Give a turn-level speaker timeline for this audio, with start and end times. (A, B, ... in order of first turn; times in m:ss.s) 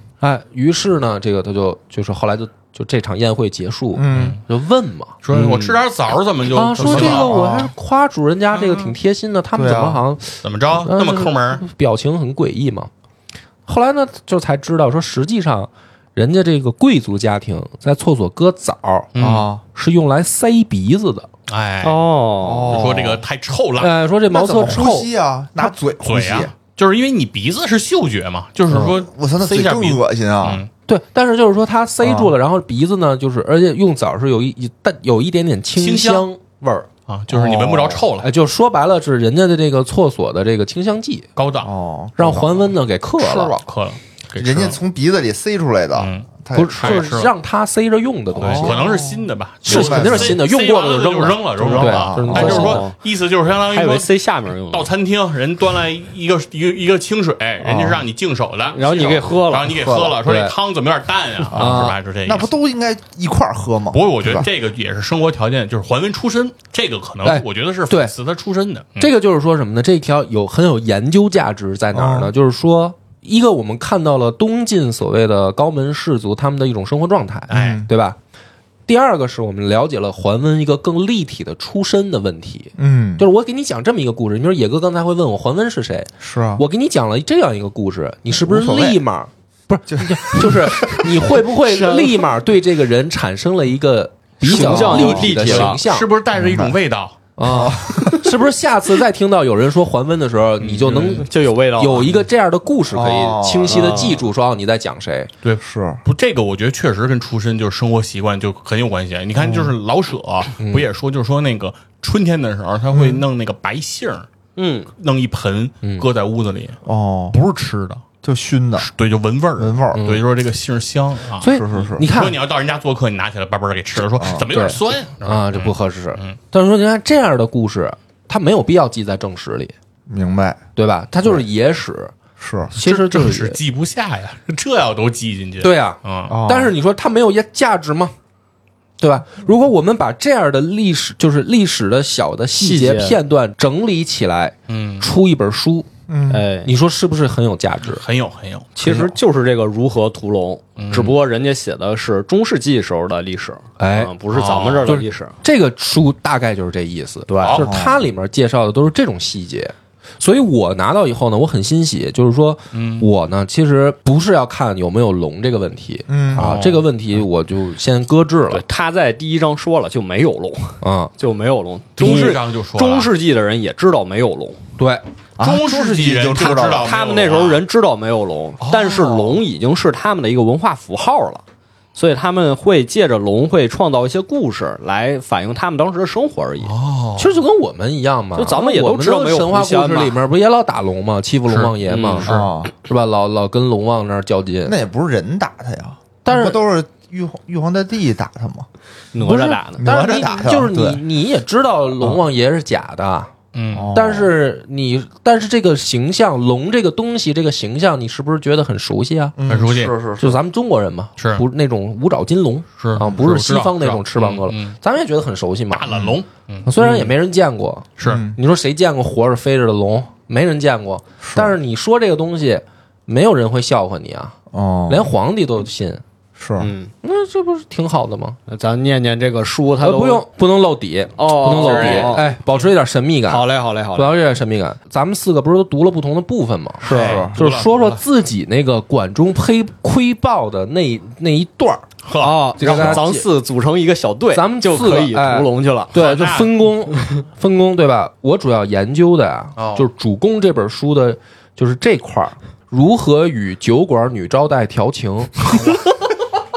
0:00.2-0:05.7 A
0:03.9-0:04.4 B
0:04.1-0:04.4 C
0:05.2-0:07.4 C
0:05.4-0:05.8 D
0:06.5-0:12.9 A
0:06.8-0:07.7 B
0:08.5-0:08.9 C
0:09.5-0:10.0 B
0:10.4-0:11.6 C
0:13.6-0:19.1 A
0:19.1-0:19.5 C
0:19.2-0:19.6 B
0:19.8-0:21.3 A
0:21.5-0:22.0 C
0:21.8-0:22.8 D
0:22.4-0:23.2 B
0:22.7-0:24.0 C
0:23.8-0:25.1 A
0:24.3-0:26.5 B
0:26.0-0:30.7 C
0:28.7-0:30.6 B
0:30.9-0:36.9 A
0:32.0-0:32.3 B
0:35.8-0:36.3 C
0:37.1-0:38.3 C
0:37.3-0:38.1 B
0:38.2-0:41.3 A
0:41.4-0:41.7 C
0:41.6-0:43.6 B
0:42.2-0:43.6 A
0:43.4-0:44.8 C
0:44.4-0:47.1 B
0:45.9-0:47.3 C
0:46.5-0:49.0 A
0:48.4-0:54.1 C
0:48.4-0:50.4 B
0:49.6-0:52.9 A
0:51.6-0:52.8 B
0:52.3-0:53.0 D
0:53.7-0:54.9 D
0:54.7-1:02.5 C
0:57.6-0:58.0 A
0:58.7-0:59.9 D
1:00.2-1:00.6 A
1:01.5-1:04.5 B
1:01.5-1:02.0 A
1:03.9-1:09.1 C
1:07.2-1:08.1 A
1:09.0-1:18.2 A
1:11.9-1:12.3 B
1:17.5-1:17.9 C
1:17.5-1:17.9 B
1:18.9-1:36.1 A
1:22.8-1:23.2 B
1:26.2-1:26.6 B
1:28.3-1:29.0 B
1:29.9-1:31.4 B
1:31.6-1:32.2 D
1:34.4-1:35.8 D
1:34.6-1:37.2 C
1:36.4-1:36.8 B
1:37.4-1:45.3 A
1:37.4-1:38.3 B
1:40.6-1:41.2 C
1:40.9-1:42.2 D
1:42.9-1:44.1 B
1:43.6-1:44.3 D
1:45.4-1:54.3 C
1:45.6-1:46.0 B
1:49.4-1:49.7 B
1:50.6-1:50.9 A
1:52.9-1:53.2 B
1:54.6-1:54.9 D
1:55.0-1:56.8 C
1:56.9-1:57.4 B
1:57.3-1:58.0 C
1:58.2-1:58.9 B
1:58.8-2:06.4 C
1:59.6-2:00.0 B
1:59.9-2:00.2 A
2:01.4-2:02.4 A
2:01.4-2:02.1 B
2:04.1-2:04.5 B
2:04.4-2:09.7 A
2:10.1-2:10.6 B
2:10.8-2:12.1 A
2:12.4-2:12.7 B
2:12.7-2:13.6 A
2:12.8-2:16.4 C
2:15.6-2:18.1 A
2:16.3-2:16.7 B
2:19.0-2:25.9 A
2:22.6-2:23.2 D
2:24.7-2:25.1 C
2:26.1-2:26.4 B
2:26.3-2:26.7 D
2:26.6-2:28.0 A
2:27.8-2:28.7 C
2:28.8-2:35.4 D
2:28.8-2:29.1 A
2:30.8-2:31.2 C
2:33.8-2:34.1 A
2:34.3-2:34.9 C
2:34.9-2:48.6 A
2:37.3-2:37.6 D
2:37.4-2:37.7 C
2:37.6-2:38.0 B
2:42.7-2:43.1 C
2:46.1-2:46.6 B
2:46.3-2:46.9 C
2:48.5-2:54.6 D
2:50.8-2:51.1 A
2:52.0-2:53.1 C
2:54.8-2:55.0 A
2:55.4-2:56.9 B
2:55.4-2:57.6 C
2:56.8-3:01.4 D
2:58.6-2:59.4 C
3:01.9-3:06.7 D
3:06.6-3:07.4 C
3:07.2-3:14.8 A
3:08.4-3:10.2 D
3:11.5-3:12.5 C
3:11.9-3:12.3 D
3:12.2-3:12.7 B
3:14.6-3:18.7 B
3:16.2-3:16.6 A
3:19.1-3:19.8 D
3:19.2-3:23.3 A
3:19.8-3:21.0 B
3:23.5-3:23.9 C
3:23.7-3:24.3 B
3:23.9-3:29.4 A
3:29.4-3:30.4 B
3:29.5-3:30.0 C
3:30.2-3:36.0 A
3:31.2-3:31.4 C
3:32.8-3:34.8 C
3:35.7-3:36.7 C
3:35.9-3:36.1 B
3:36.6-3:44.4 A
3:38.0-3:38.2 C
3:38.0-3:38.4 B
3:41.2-3:41.6 B
3:44.5-3:45.1 B
3:44.9-3:46.0 A
3:46.4-3:46.7 B
3:46.6-3:46.9 D
3:47.0-3:48.4 A
3:48.5-3:50.2 D
3:49.8-4:01.9 A
3:51.2-3:52.3 D
3:51.4-3:52.4 C
3:53.3-3:54.1 D
3:56.8-3:57.2 D
3:56.8-3:58.0 C
3:56.8-3:57.4 B
4:02.0-4:03.1 C
4:02.2-4:05.9 D
4:02.6-4:03.2 A
4:04.3-4:15.6 A
4:05.9-4:06.6 C
4:09.6-4:09.9 C